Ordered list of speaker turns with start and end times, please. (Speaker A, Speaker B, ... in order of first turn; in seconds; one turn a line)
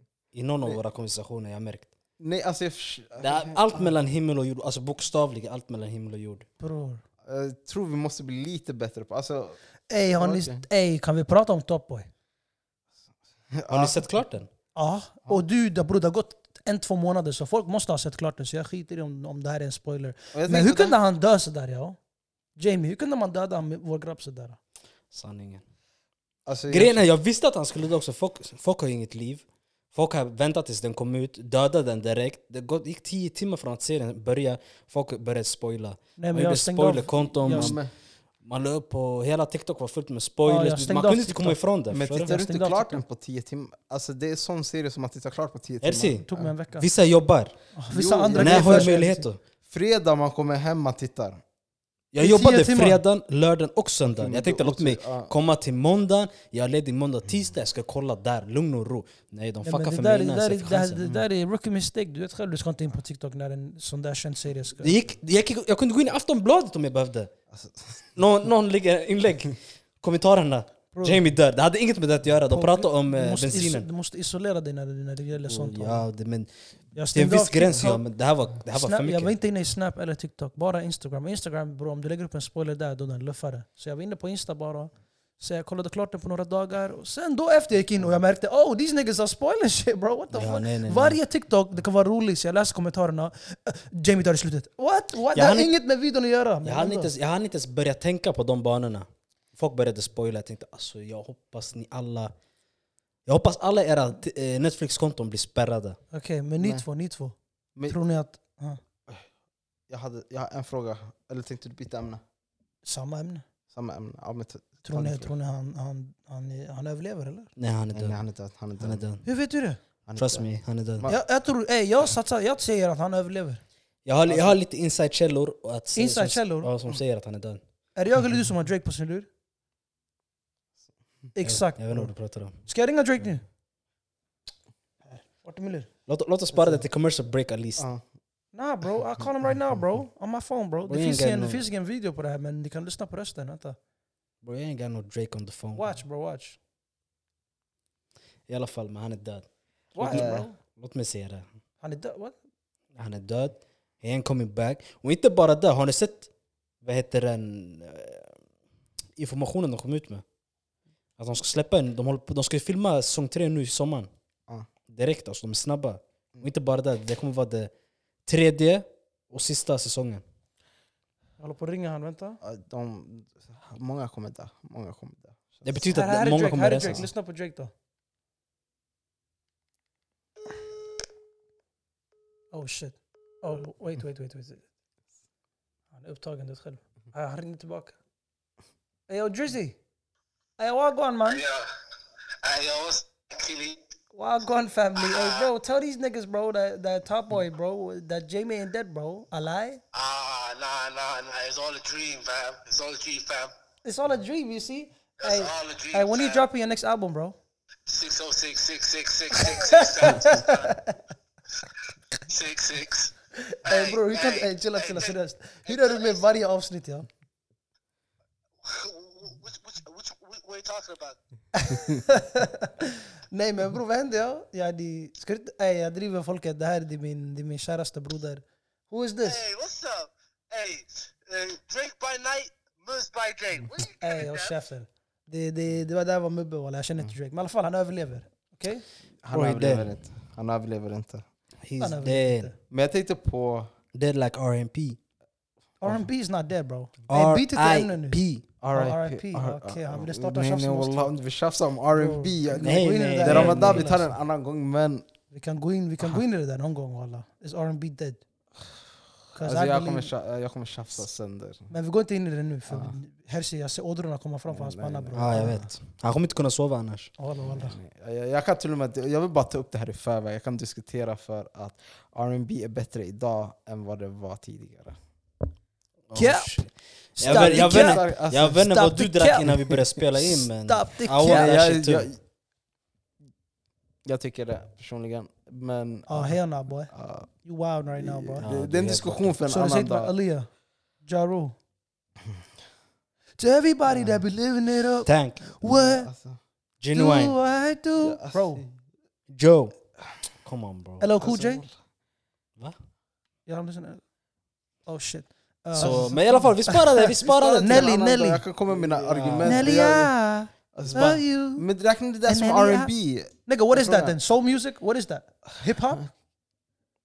Speaker A: 0.3-1.9
Speaker B: 2.2-3.6
Speaker A: 3.2-6.5
Speaker C: 6.6-7.0
Speaker B: 7.2-9.6
Speaker C: 9.9-12.1
Speaker B: 10.2-10.6
Speaker B: 13.5-14.2
Speaker A: 13.7-14.5
Speaker C: 14.7-22.0
Speaker B: 20.3-21.0
Speaker C: 22.6-24.6
Speaker A: 25.1-25.6
Speaker B: 26.4-27.0
Speaker A: 26.7-37.8
Speaker C: 36.2-37.8
Speaker B: 37.5-37.9
Speaker A: 38.4-42.3
Speaker C: 40.4-41.6
Speaker B: 41.9-46.5
Speaker C: 42.1-43.0
Speaker A: 45.8-46.2
Speaker C: 46.3-46.9
Speaker A: 46.8-47.5
Speaker C: 47.7-49.2
Speaker B: 47.9-48.9
Speaker A: 48.4-49.4
Speaker B: 49.6-51.4
Speaker A: 52.1-61.0
Speaker C: 52.2-53.0
Speaker B: 54.1-55.3
Speaker C: 59.6-65.0
Speaker A: 64.8-67.3
Speaker B: 67.5-68.1
Speaker A: 68.1-73.9
Speaker C: 70.9-71.2
Speaker C: 72.5-76.0
Speaker A: 75.5-76.5
Speaker C: 76.9-78.0
Speaker A: 77.1-79.3
Speaker C: 78.7-97.1
Speaker A: 90.3-91.2
Speaker A: 95.3-95.7
Speaker A: 96.6-102.3
Speaker A: 103.2-106.0
Speaker C: 106.1-108.8
Speaker B: 109.9-112.2
Speaker C: 112.8-113.4
Speaker B: 113.7-115.3
Speaker C: 114.8-117.5
Speaker A: 117.6-118.2
Speaker B: 117.9-119.0
Speaker A: 118.8-119.2
Speaker C: 119.2-119.8
Speaker B: 120.0-121.2
Speaker A: 120.2-121.1
Speaker C: 121.0-123.6
Speaker A: 124.0-127.6
Speaker C: 125.9-126.7
Speaker C: 127.9-129.3
Speaker C: 131.3-133.4
Speaker A: 131.4-132.6
Speaker C: 135.0-135.9
Speaker A: 136.1-137.8
Speaker C: 136.5-136.8
Speaker B: 137.8-138.0
Speaker C: 138.5-143.8
Speaker A: 140.9-141.6
Speaker A: 144.4-145.8
Speaker C: 145.8-146.6
Speaker A: 148.5-149.5
Speaker C: 149.9-150.6
Speaker A: 150.0-151.4
Speaker B: 150.0-150.5
Speaker C: 151.8-152.3
Speaker A: 152.9-156.3
Speaker A: 156.8-158.3
Speaker A: 159.2-160.2
Speaker A: 161.2-164.1
Speaker A: 164.9-167.7
Speaker A: 168.2-170.2
Speaker C: 171.4-172.4
Speaker B: 172.4-175.9
Speaker A: 175.6-177.0
Speaker C: 175.9-177.7
Speaker C: 182.5-184.6
Speaker C: 185.9-187.9
Speaker C: 189.1-189.8
Speaker C: 190.6-191.4
Speaker D: 191.3-191.7
Speaker D: 192.4-193.8
Speaker C: 194.1-199.8
Speaker D: 194.9-195.5
Speaker D: 199.9-203.5
Speaker C: 203.8-207.3
Speaker D: 205.2-206.4
Speaker D: 207.9-210.8
Speaker C: 209.4-210.9
Speaker D: 212.2-213.1
Speaker C: 213.4-217.1
Speaker D: 213.7-216.2
Speaker D: 218.6-221.2
Speaker C: 221.5-229.4
Speaker D: 229.2-234.5
Speaker C: 234.0-238.8
Speaker B: 239.2-241.2
Speaker A: 239.3-239.9
Speaker A: 241.6-242.5
Speaker C: 241.8-242.5
Speaker B: 242.7-243.7
Speaker A: 243.9-245.0
Speaker C: 245.8-248.2
Speaker A: 247.1-248.4
Speaker B: 248.6-255.1
Speaker C: 248.7-251.1
Speaker C: 251.9-253.9
Speaker A: 252.6-254.1
Speaker C: 255.3-258.2
Speaker C: 259.3-260.1
Speaker B: 259.3-261.7
Speaker C: 261.7-265.6
Speaker B: 262.7-262.9
Speaker B: 264.5-265.6
Speaker A: 265.1-267.1
Speaker C: 267.2-267.8
Speaker B: 267.5-275.0
Speaker A: 276.1-282.1
Speaker C: 276.1-276.6
Speaker B: 277.2-278.6
Speaker C: 277.2-281.5
Speaker B: 281.2-282.2
Speaker B: 284.0-286.4
Speaker C: 286.1-288.4
Speaker B: 286.9-287.3
Speaker B: 287.9-290.1
Speaker A: 288.4-289.3
Speaker C: 289.5-290.5
Speaker C: 291.0-291.5
Speaker C: 293.4-296.1
Speaker A: 295.0-295.4
Speaker B: 295.6-296.4
Speaker A: 296.8-297.4
Speaker C: 296.9-298.6
Speaker B: 298.0-298.7
Speaker A: 299.3-299.8
Speaker A: 300.4-301.1
Speaker C: 301.0-301.6
Speaker B: 301.2-301.7
Speaker C: 303.4-304.0
Speaker C: 304.9-308.4
Speaker A: 305.8-307.9
Speaker B: 305.8-306.1
Speaker B: 307.2-310.1
Speaker A: 308.9-309.7
Speaker C: 309.4-311.7
Speaker B: 310.7-314.2
Speaker C: 312.2-316.1